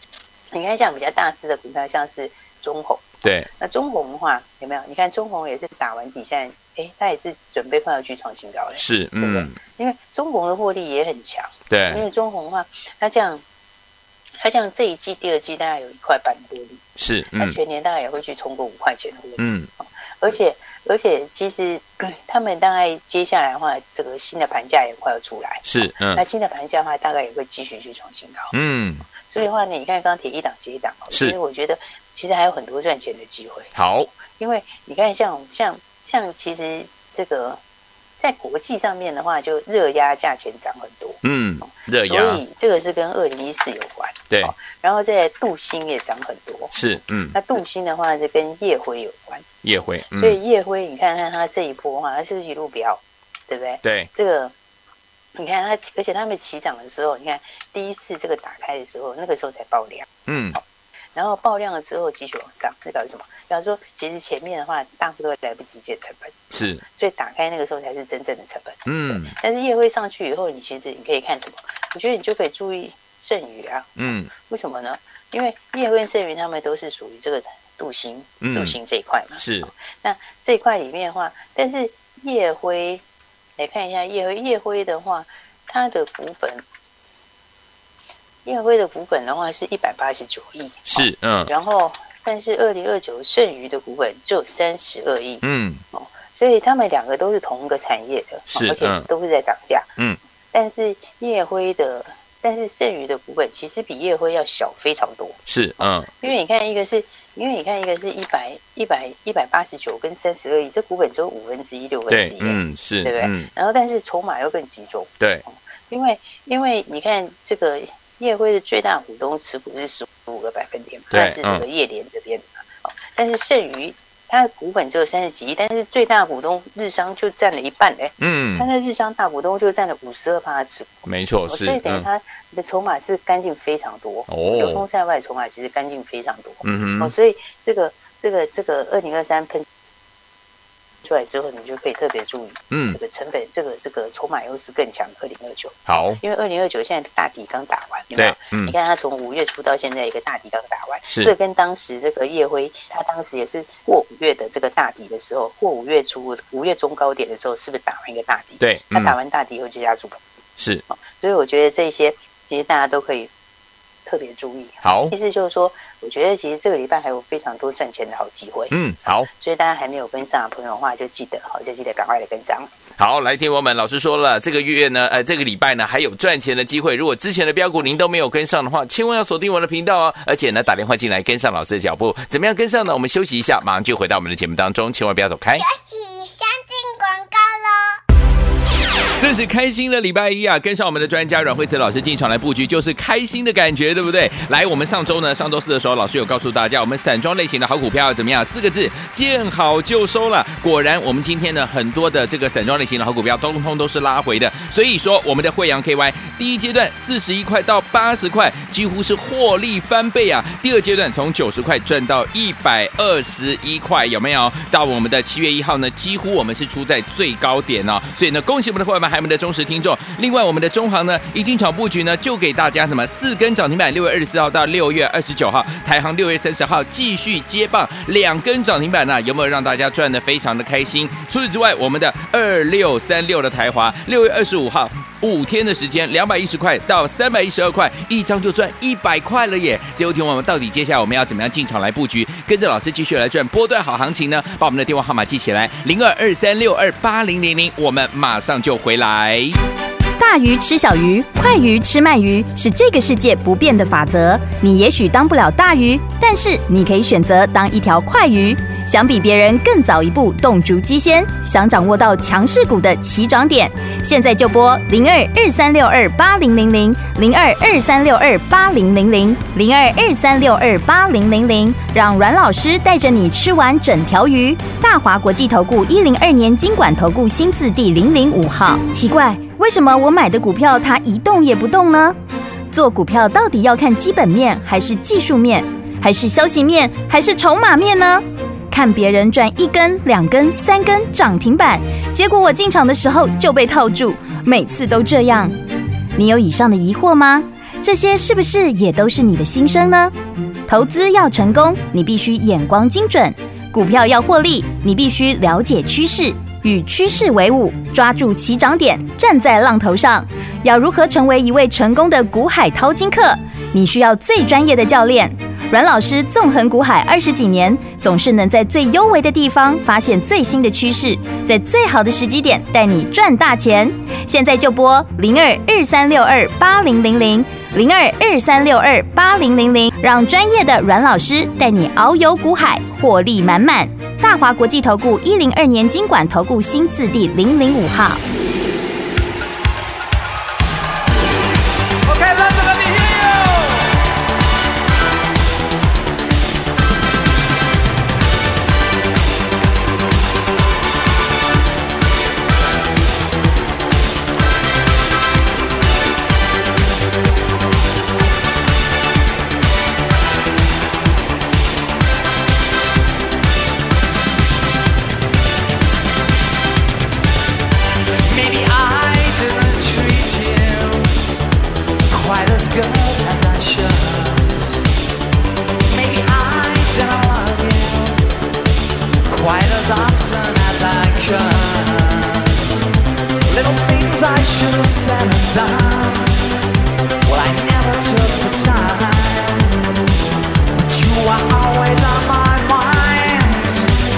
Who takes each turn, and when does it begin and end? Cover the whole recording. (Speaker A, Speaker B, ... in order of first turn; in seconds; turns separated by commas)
Speaker A: 0.5-13.4, Speaker B: 8.8-9.6, Speaker B: 11.7-12.0, Speaker A: 14.4-16.8, Speaker B: 17.0-17.6, Speaker A: 17.4-19.4, Speaker B: 19.4-19.7, Speaker A: 20.2-28.5, Speaker B: 25.6-26.2, Speaker B: 28.5-29.1, Speaker A: 29.1-37.6, Speaker B: 33.8-34.1, Speaker A: 38.2-46.8, Speaker B: 41.2-42.4, Speaker B: 46.7-47.4, Speaker A: 47.3-49.5, Speaker B: 49.6-50.4, Speaker A: 50.1-54.5, Speaker B: 53.8-54.1, Speaker A: 55.4-60.6, Speaker B: 60.3-60.6, Speaker A: 61.1-83.0, Speaker B: 66.5-66.8, Speaker B: 68.9-69.3, Speaker B: 74.0-74.3, Speaker B: 78.4-78.8, Speaker B: 79.4-79.7, Speaker A: 83.6-86.7, Speaker A: 88.5-99.9, Speaker B: 90.9-91.5, Speaker B: 95.4-95.8, Speaker B: 98.5-99.1, Speaker A: 100.5-139.7, Speaker B: 105.5-106.1, Speaker B: 112.1-113.5, Speaker B: 121.1-121.7, Speaker B: 128.2-128.7, Speaker B: 131.1-132.1, Speaker B: 134.3-134.8, Speaker B: 136.6-137.1, Speaker A: 141.0-160.2, Speaker B: 142.7-143.0, Speaker B: 145.9-146.2, Speaker B: 148.2-148.8, Speaker B: 158.6-159.2, Speaker B: 160.6-160.8, Speaker A: 160.9-163.3, Speaker A: 164.1-168.8, Speaker B: 164.8-165.1, Speaker B: 168.7-169.3, Speaker A: 169.3-172.7, Speaker B: 173.0-185.7, Speaker C: 185.5-188.0, Speaker B: 189.2-249.6, Speaker D: 250.2-282.2, Speaker D: 282.7-295.5, Speaker D: 296.2-300.1, Speaker D: 300.7-338.2, Speaker E: 342.0-344.0, Speaker E: 368.2-371.2, Speaker E: 372.1-374.8, Speaker E: 375.9-378.3, Speaker E: 379.3-382.8, Speaker E: 383.5-386.4, Speaker E: 387.2-390.0, Speaker E: 390.7-393.9